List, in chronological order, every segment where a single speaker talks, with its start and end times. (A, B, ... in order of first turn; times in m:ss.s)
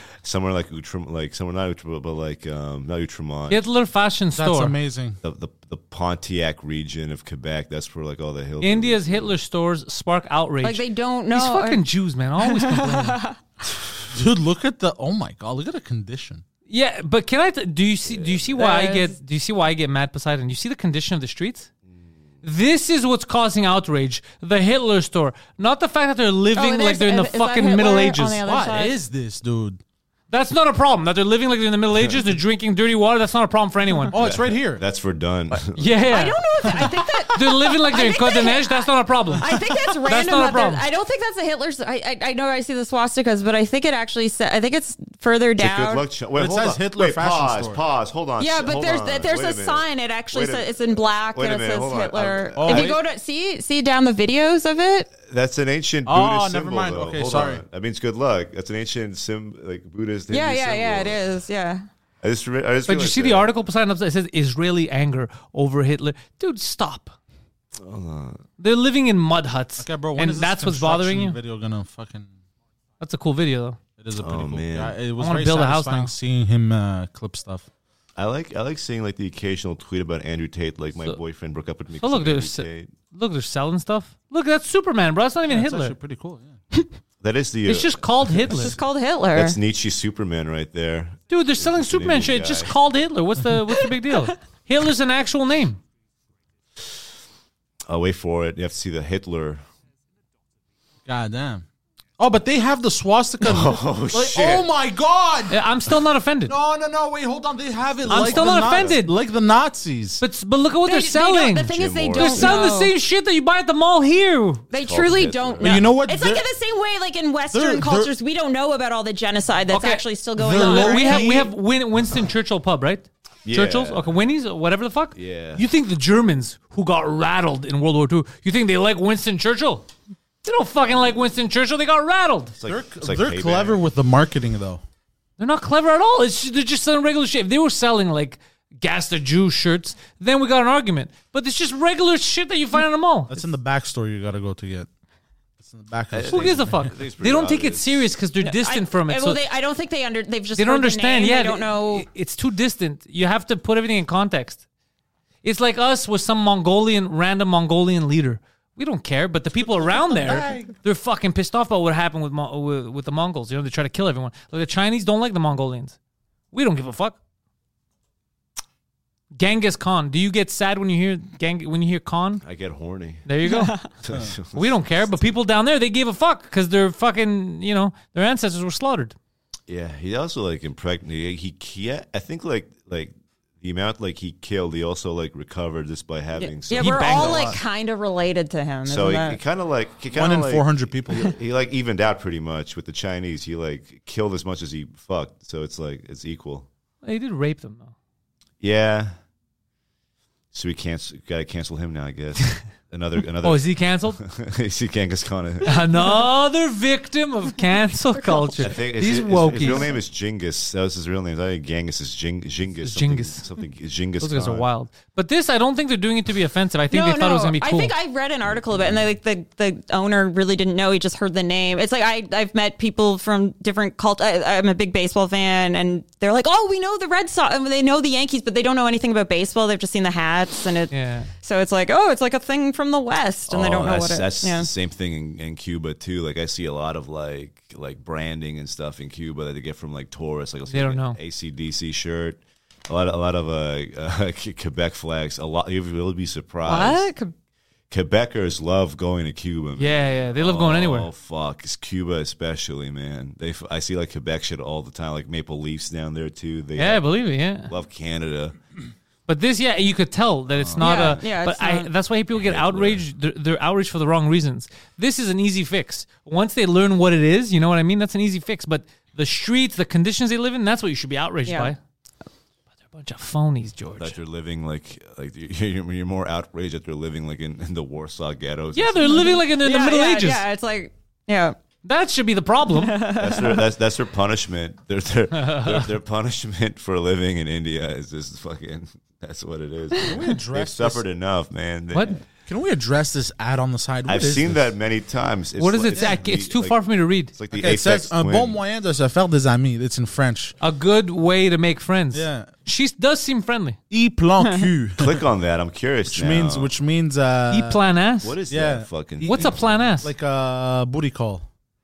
0:00.2-0:03.6 A
0:03.5-0:04.8 B
0:04.4-0:05.2 C
0:05.2-0:09.3 A
0:08.6-0:13.2 B
0:10.6-0:11.8 D
0:12.4-0:13.4 D
0:14.1-0:16.4 C
0:16.7-0:21.7 B
0:18.1-0:18.4 A
0:18.5-0:19.1 D
0:22.4-0:28.6 B
0:26.5-0:29.0 D
0:28.4-0:29.8 C
0:30.3-0:34.1 B
0:34.1-0:34.8 C
0:34.1-0:36.2 A
0:35.7-0:39.5 B
0:36.1-0:46.0 D
0:36.8-0:37.5 C
0:40.0-0:40.8 B
0:45.6-0:53.0 A
0:46.3-0:47.8 C
0:48.4-0:55.1 D
0:52.6-0:53.0 C
0:55.1-1:01.2 A
0:56.0-0:57.6 C
1:00.3-1:01.8 D
1:02.2-1:03.5 A
1:02.8-1:07.1 B
1:07.8-1:08.4 A
1:08.6-1:11.4 B
1:09.8-1:12.3 C
1:13.0-1:13.8 B
1:14.0-1:17.7 C
1:14.2-1:15.0 A
1:15.2-1:16.1 B
1:18.2-1:22.9 A
1:22.0-1:26.0 B
1:25.5-1:26.6 C
1:27.2-1:28.8 A
1:27.6-1:28.8 B
1:28.5-1:29.6 D
1:29.3-1:32.7 A
1:31.3-1:35.8 B
1:37.9-1:39.6 A
1:41.0-1:41.6 C
1:42.2-1:45.6 C
1:43.4-1:44.7 A
1:45.5-1:46.5 B
1:46.5-1:50.2 C
1:48.0-1:49.0 A
1:48.1-1:49.1 B
1:50.2-1:54.6 B
1:50.8-1:52.9 D
1:51.7-1:52.6 A
1:54.7-2:01.4 D
1:54.8-1:55.9 A
1:55.6-1:56.4 C
1:57.5-1:58.1 C
1:59.7-2:09.9 B
2:00.4-2:01.5 C
2:03.4-2:04.1 A
2:05.1-2:05.6 A
2:10.4-2:12.6 B
2:12.6-2:13.8 A
2:12.6-2:14.8 C
2:15.4-2:23.4 B
2:23.3-2:24.9 C
2:25.6-2:26.9 C
2:26.1-2:28.0 A
2:26.3-2:29.4 B
2:28.4-2:32.0 D
2:30.6-2:34.6 B
2:35.4-2:46.0 B
2:40.2-2:40.6 C
2:46.5-2:47.2 B
2:49.3-2:52.4 B
2:52.4-2:53.2 A
2:53.2-2:53.8 B
2:53.4-2:53.8 D
2:54.0-2:55.3 A
2:54.5-2:59.1 B
2:59.7-3:07.5 A
3:06.4-3:09.4 D
3:06.7-3:07.6 B
3:08.9-3:16.7 A
3:10.1-3:11.3 C
3:17.0-3:17.9 B
3:18.6-3:19.1 A
3:20.5-3:25.7 A
3:23.4-3:24.2 B
3:25.6-3:30.0 B
3:28.2-3:28.5 D
3:28.6-3:34.7 A
3:32.8-3:33.4 B
3:34.2-3:37.9 B
3:36.9-3:54.7 D
3:50.9-3:51.3 B
3:53.5-4:07.1 A
4:00.7-4:01.2 B
4:06.6-4:07.3 D
4:07.9-4:17.0 A
4:09.8-4:11.1 B
4:16.8-4:17.7 B
4:17.7-4:18.6 A
4:19.3-4:31.8 B
4:20.5-4:21.2 A
4:20.8-4:21.9 D
4:22.4-4:23.0 A
4:31.4-4:31.7 D
4:32.9-4:34.2 B
4:34.0-4:39.3 A
4:38.7-4:40.4 B
4:39.0-4:41.6 D
4:41.8-4:43.0 B
4:42.7-4:43.6 D
4:43.2-4:52.2 A
4:45.3-4:45.9 B
4:50.0-4:51.0 C
4:51.9-4:52.2 B
4:52.5-4:54.7 C
4:54.0-4:56.8 A
4:55.6-4:57.3 B
4:55.9-4:56.2 C
4:57.3-4:58.6 A
4:57.5-5:00.5 C
5:00.6-5:03.8 B
5:02.1-5:02.5 C
5:03.9-5:05.2 C
5:05.0-5:06.7 A
5:06.1-5:07.8 C
5:07.5-5:08.4 B
5:08.2-5:09.9 A
5:08.5-5:11.4 C
5:09.2-5:10.1 B